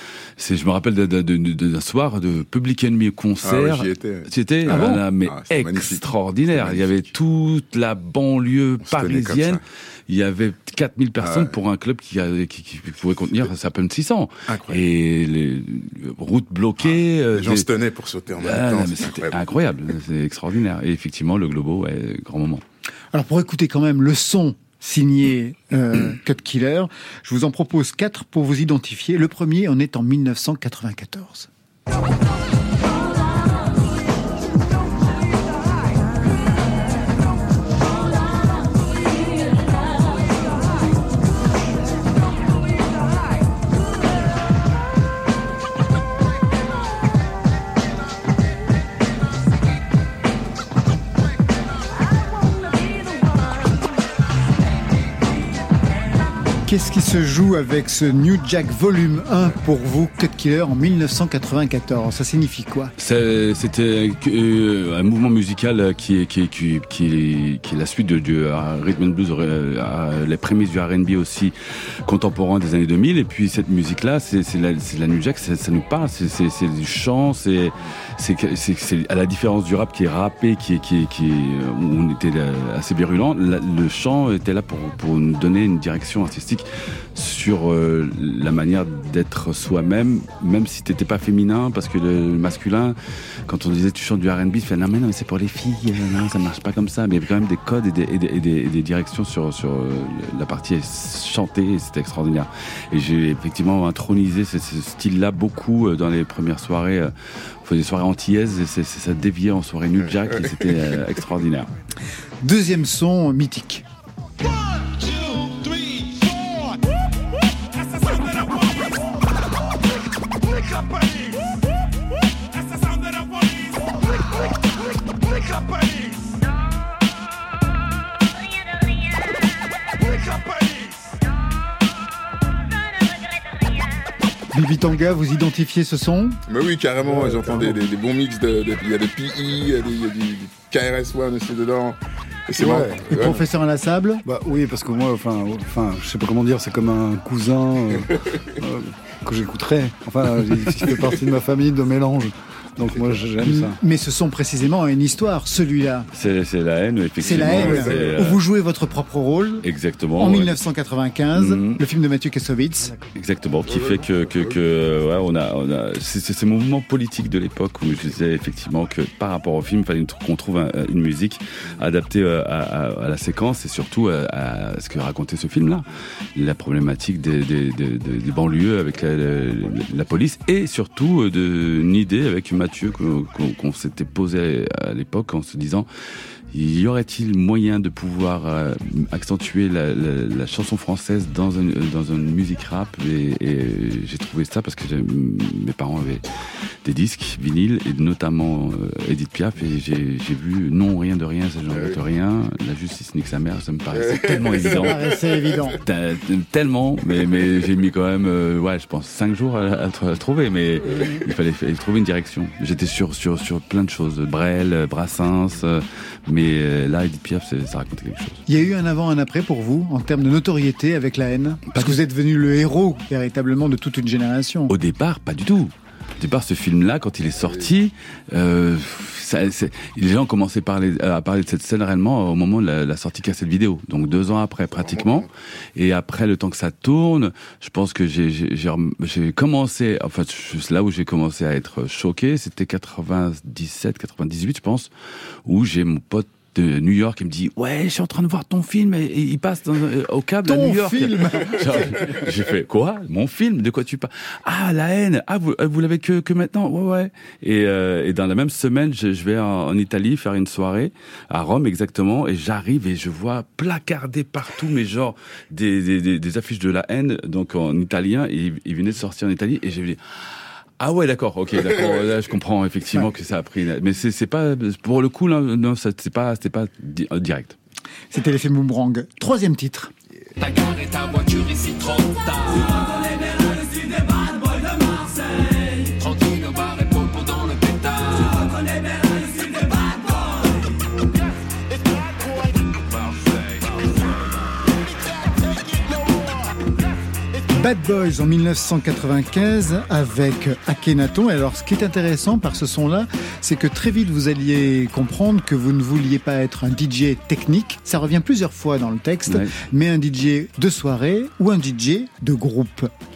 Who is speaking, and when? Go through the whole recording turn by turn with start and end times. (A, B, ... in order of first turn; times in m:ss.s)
0:00.4-0:17.7 A
0:03.4-0:06.9 B
0:04.7-0:05.0 C
0:08.8-0:09.6 B
0:11.2-0:11.5 B
0:14.5-0:14.8 B
0:16.8-0:19.4 B
0:18.4-0:22.6 A
0:23.1-0:31.5 C
0:56.6-1:02.9 C
1:03.0-1:11.5 A
1:12.0-1:32.9 A
1:33.4-1:47.1 A
1:47.6-1:51.7 A
1:52.4-1:53.8 C
2:14.5-2:16.4 C
2:16.5-2:23.4 B
2:17.2-2:17.6 D
2:22.6-2:23.2 D
2:23.1-2:24.2 C
2:24.2-2:33.8 D
2:33.4-2:36.1 C
2:36.1-2:38.4 A
2:37.2-2:39.6 C
2:37.4-2:38.2 B
2:39.6-2:40.6 A
2:40.2-2:42.9 C
2:41.3-2:41.8 A
2:43.1-3:05.9 A
2:43.6-2:44.6 B
3:06.5-3:16.2 A
3:16.8-3:25.1 A
3:21.7-3:22.0 B
3:23.9-3:24.8 B
3:24.7-3:25.8 C
3:25.8-3:38.4 A
3:38.5-3:44.7 C
3:41.7-3:42.0 A
3:44.7-4:04.9 A
3:54.7-3:55.3 B
4:05.4-4:30.0 A
4:10.4-4:11.8 C
4:30.8-4:37.6 A
4:38.1-4:39.9 C
4:40.4-4:50.1 E
4:52.9-4:54.1 E
4:57.5-5:12.9 C
5:09.3-5:09.5 A